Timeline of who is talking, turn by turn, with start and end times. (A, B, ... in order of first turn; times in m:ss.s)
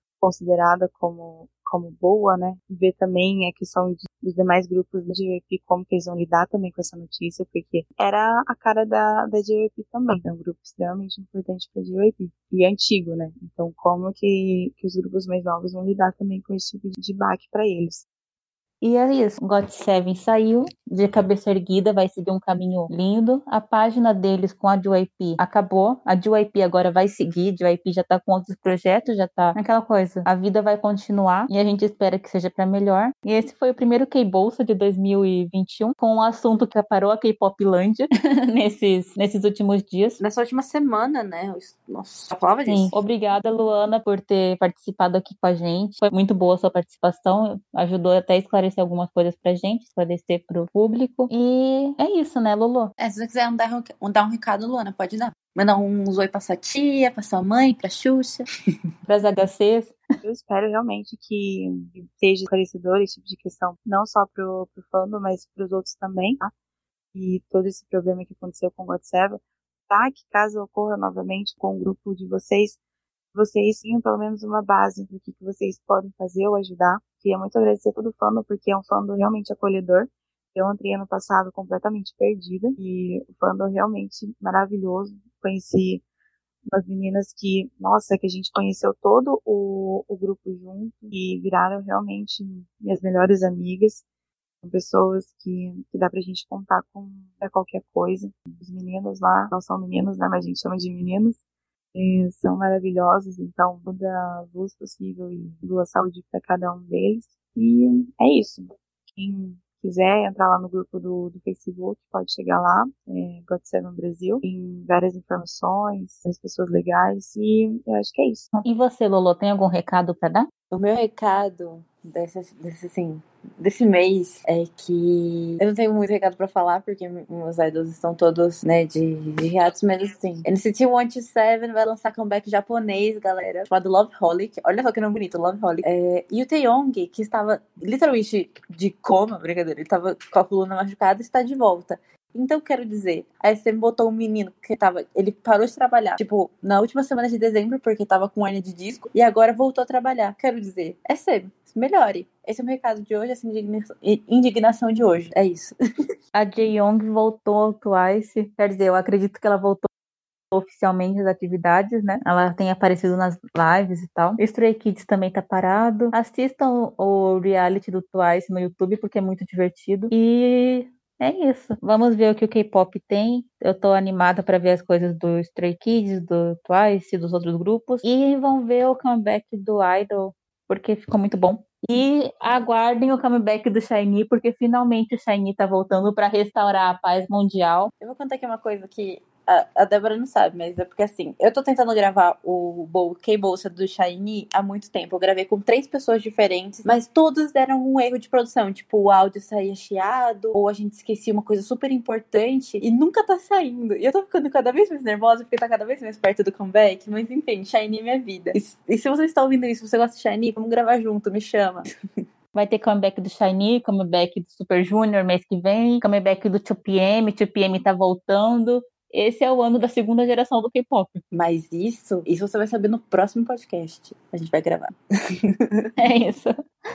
0:00.2-0:18.0 A
0:18.8-0:40.2 B
0:40.2-0:42.9 C
0:42.7-0:52.9 B
0:53.0-0:58.4 C
0:59.1-1:00.0 B
1:00.2-1:06.5 A
1:07.1-1:12.8 A
1:13.3-1:26.0 A
1:26.7-1:34.0 A
1:34.6-1:41.4 A
1:41.9-1:58.5 A
1:58.5-2:00.5 B
2:00.7-2:35.7 C
2:36.3-2:39.9 B
2:40.5-3:07.9 B
3:08.0-3:31.9 C
3:32.5-3:41.2 B
3:41.3-3:45.9 C
3:46.0-3:46.5 B